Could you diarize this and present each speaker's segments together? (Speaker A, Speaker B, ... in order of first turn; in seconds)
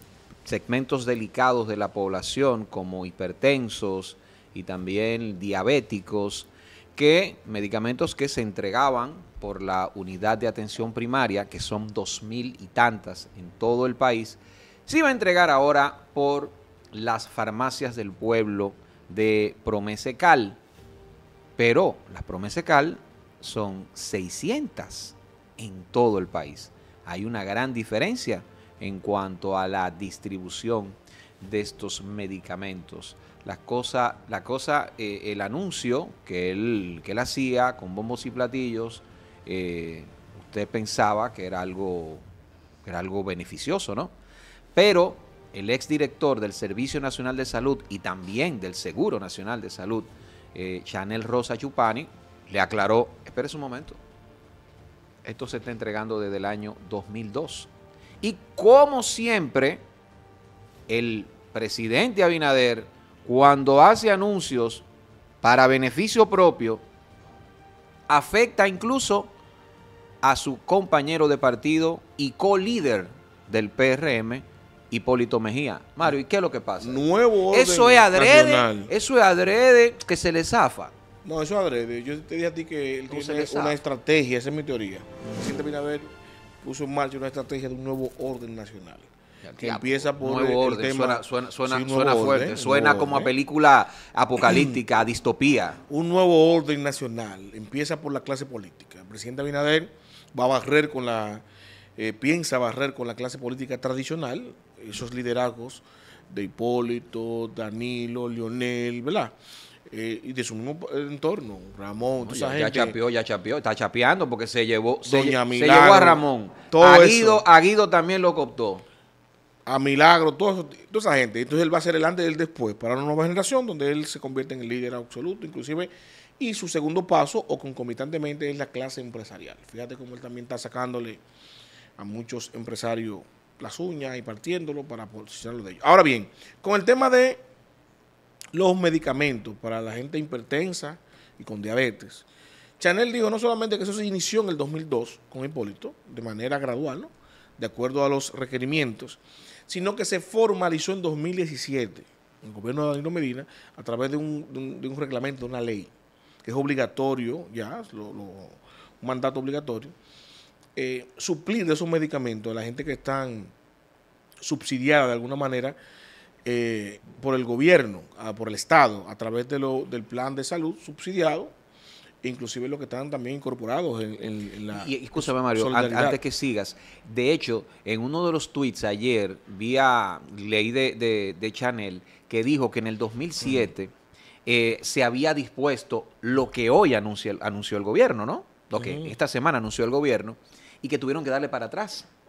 Speaker A: 0.5-20.6, 21.6-42.2, 42.8-44.1, 44.8-54.0, 55.2-57.7, 58.2-59.8, 60.9-64.8, 65.4-66.8, 68.1-69.3, 70.2-80.9, 83.1-83.8, 89.4-95.8, 112.2-118.8, 174.7-183.9, 184.5-192.1
Speaker B: 76.8-78.9, 81.2-93.3, 94.4-94.8, 95.9-101.4, 102.0-109.3, 109.9-113.0, 115.1-117.4, 119.7-131.2, 132.0-137.4, 138.5-142.2, 142.8-155.9, 156.4-159.9, 160.8-163.5, 164.4-165.8, 166.4-171.5, 172.2-176.2, 188.7-189.2